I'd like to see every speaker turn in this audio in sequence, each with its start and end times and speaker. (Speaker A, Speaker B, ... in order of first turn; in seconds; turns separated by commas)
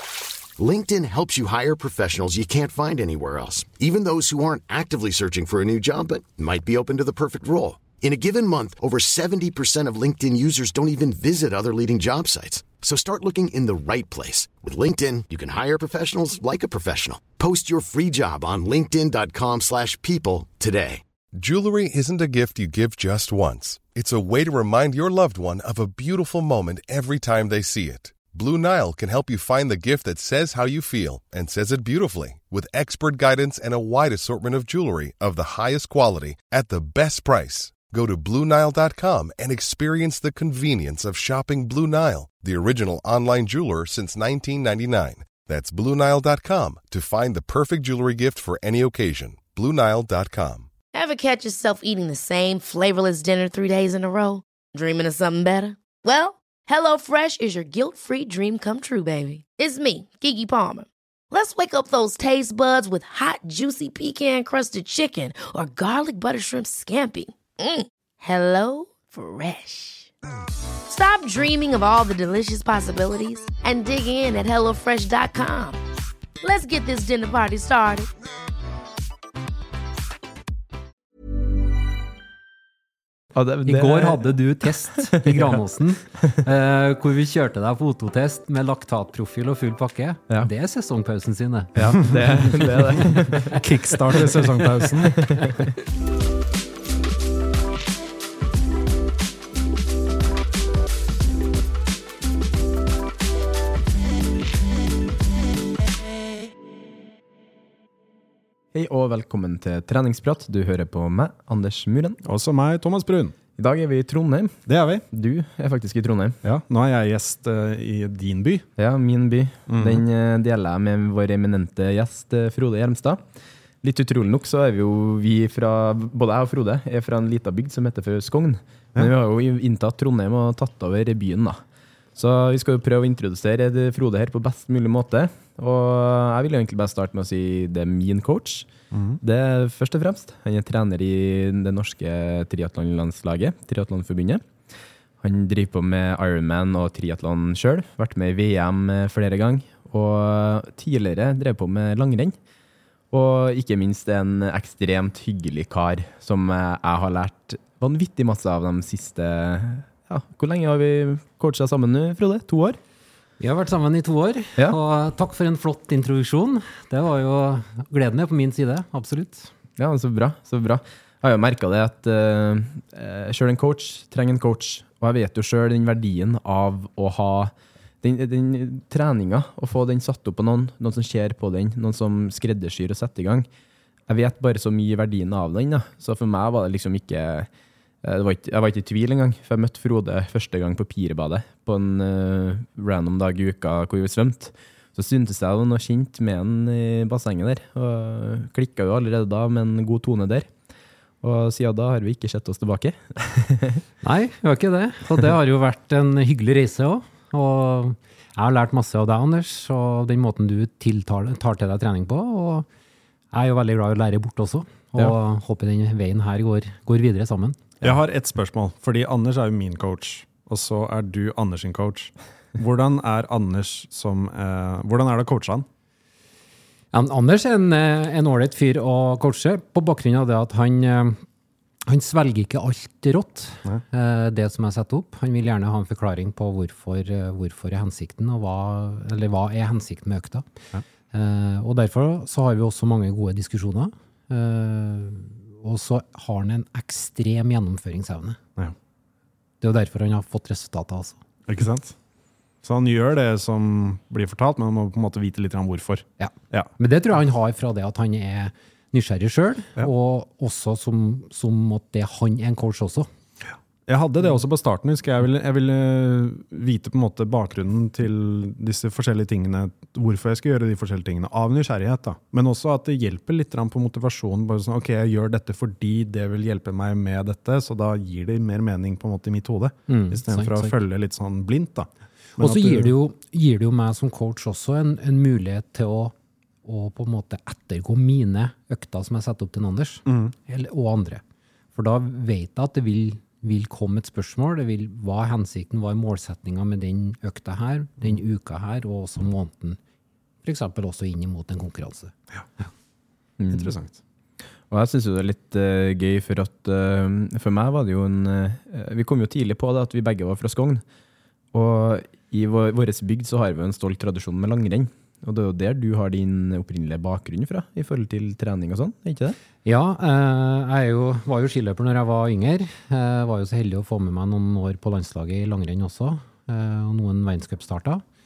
Speaker A: 0.6-21.0, Speaker B: 21.4-50.7, Speaker C: 50.9-70.1, Speaker C: 70.9-75.8, Speaker C: 76.4-78.1, Speaker D: 83.3-84.3, Speaker E: 83.7-93.3, Speaker D: 85.0-85.6, Speaker D: 91.8-93.7, Speaker F: 93.5-95.4, Speaker D: 94.8-95.7, Speaker D: 108.7-112.2, Speaker F: 112.2-113.3, Speaker D: 113.6-114.6, Speaker F: 114.7-115.0, Speaker D: 115.1-116.4, Speaker F: 116.4-118.7, Speaker D: 118.8-123.2, Speaker F: 119.7-120.0, Speaker D: 123.8-131.6, Speaker D: 132.2-138.7, Speaker F: 138.9-139.2, Speaker D: 139.2-144.5, Speaker D: 145.2-152.4, Speaker D: 153.1-162.8, Speaker E: 163.4-169.5, Speaker D: 169.8-183.5, Speaker D: 184.1-187.5, Speaker D: 188.0-200.5, Speaker D: 201.2-203.8, Speaker E: 204.0-212.7, Speaker E: 213.3-217.7, Speaker F: 217.8-225.7, Speaker E: 226.9-231.2, Speaker E: 231.9-240.5, Speaker E: 241.1-248.4, Speaker E: 249.6-251.2, Speaker F: 251.5-252.0, Speaker F: 252.6-256.7, Speaker E: 256.2-263.1, Speaker F: 263.9-282.9, Speaker E: 279.9-280.8, Speaker E: 282.4-291.2, Speaker F: 290.1-290.3, Speaker E: 291.8-299.8, Speaker E: 300.4-302.1, Speaker D: 303.4-303.7, Speaker F: 303.5-304.0, Speaker D: 304.7-310.8, Speaker D: 311.5-319.4, Speaker E: 319.6-328.0